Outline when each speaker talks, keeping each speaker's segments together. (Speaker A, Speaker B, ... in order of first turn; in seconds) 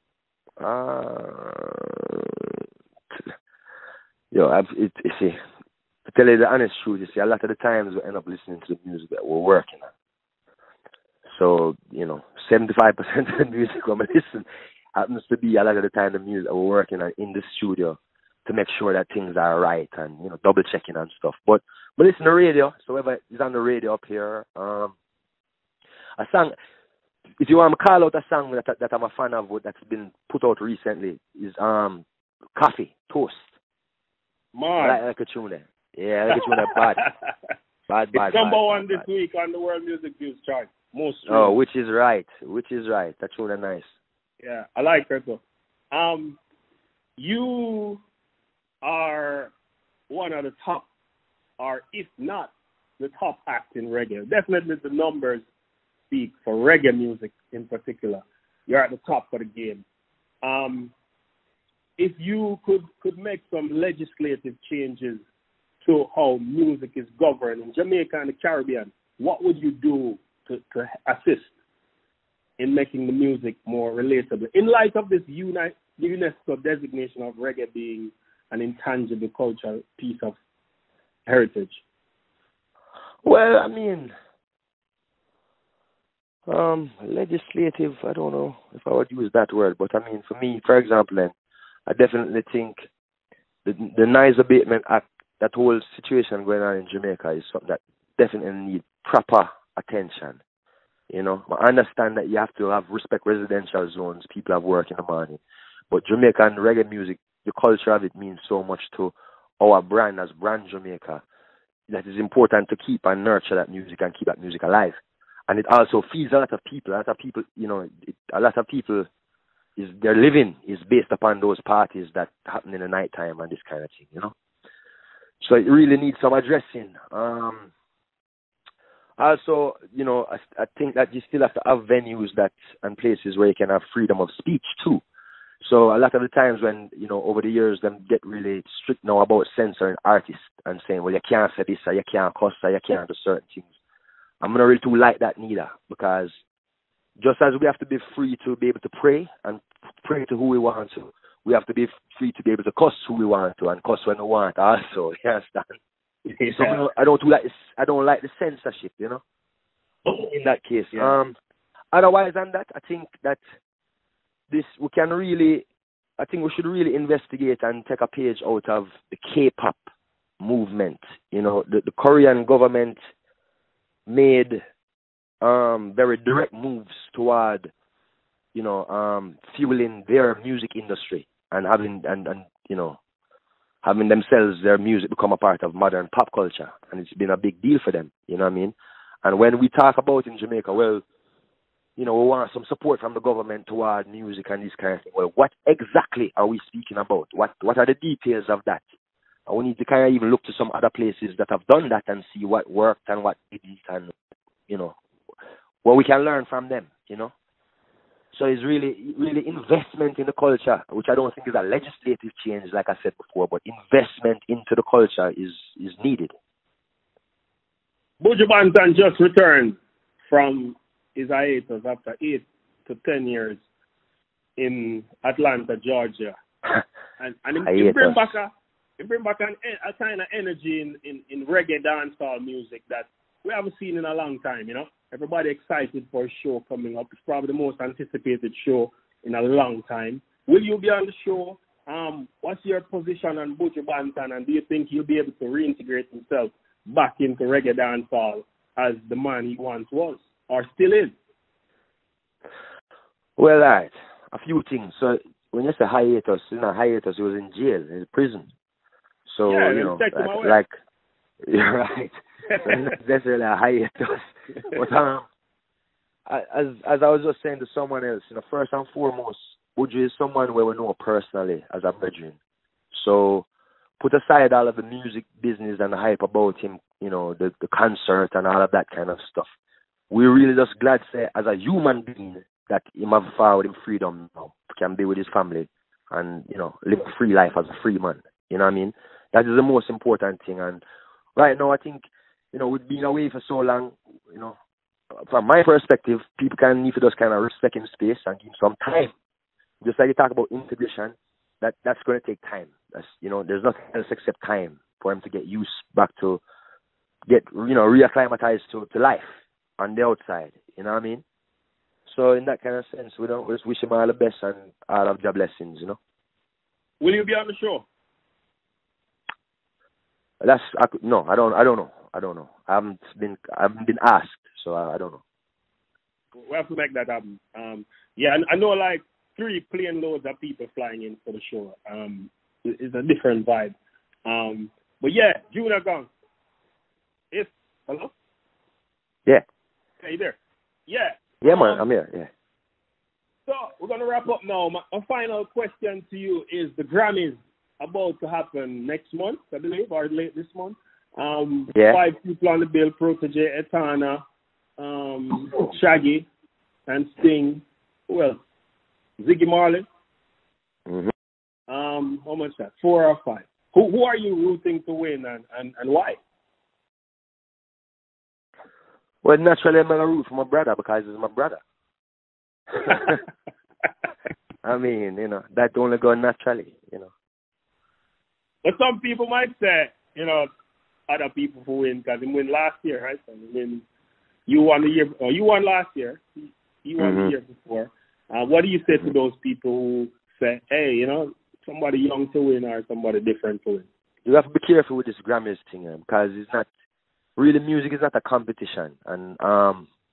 Speaker A: 0.6-2.6, 4.3-5.4, 6.0-9.9, 11.3-24.9, 26.2-26.6, 27.4-33.5, 34.8-37.0, 37.9-39.0, 41.3-43.9, 83.2-84.1, 86.5-91.3, 91.9-92.8, 93.7-100.4, 101.1-105.4, 105.9-111.2, 111.9-115.0, 115.5-119.1, 119.8-124.3, 125.4-127.7, 129.2-135.0, 135.6-143.7, 144.4-146.3, 147.2-155.8, 156.5-159.2, 160.1-161.4, 161.9-163.4, 164.5-165.7, 166.2-169.8, 170.4-173.0, 174.1-174.6, 175.4-177.7, 178.5-183.0, 183.8-191.0, 192.0-198.8, 199.5-204.1, 204.7-204.9, 205.8-207.3, 208.3-216.3, 227.7-228.2, 253.4-258.5, 259.3-260.7, 261.4-262.1, 262.6-265.3, 266.3-272.4, 272.9-273.5, 274.0-279.5, 280.1-290.8, 291.4-292.0, 292.5-294.6, 295.1-299.1, 299.8-306.4, 307.3-311.2, 312.1-316.0, 320.4-325.2, 341.4-342.3, 351.7-352.0, 360.9-361.1, 369.2-371.6, 372.8-373.2, 374.6-377.1, 387.0-387.3, 394.3-396.7, 397.4-399.9
Speaker B: 34.5-35.0, 36.3-37.1, 38.1-41.5, 44.4-45.4, 45.9-46.4, 47.2-48.0, 48.8-49.5, 50.1-50.9, 51.6-55.5, 56.1-59.8, 60.4-60.9, 62.0-65.2, 65.8-71.5, 72.6-80.4, 81.3-81.8, 156.3-156.8, 218.2-223.6, 224.6-226.3, 227.2-251.1, 259.5-260.6, 262.5-262.9, 317.0-317.9, 326.3-333.8, 334.3-336.1, 337.3-338.1, 340.0-341.8, 343.5-354.2, 354.8-356.3, 356.9-358.4, 359.2-359.9, 361.7-366.2, 378.6-380.5, 381.1-383.8, 384.5-393.9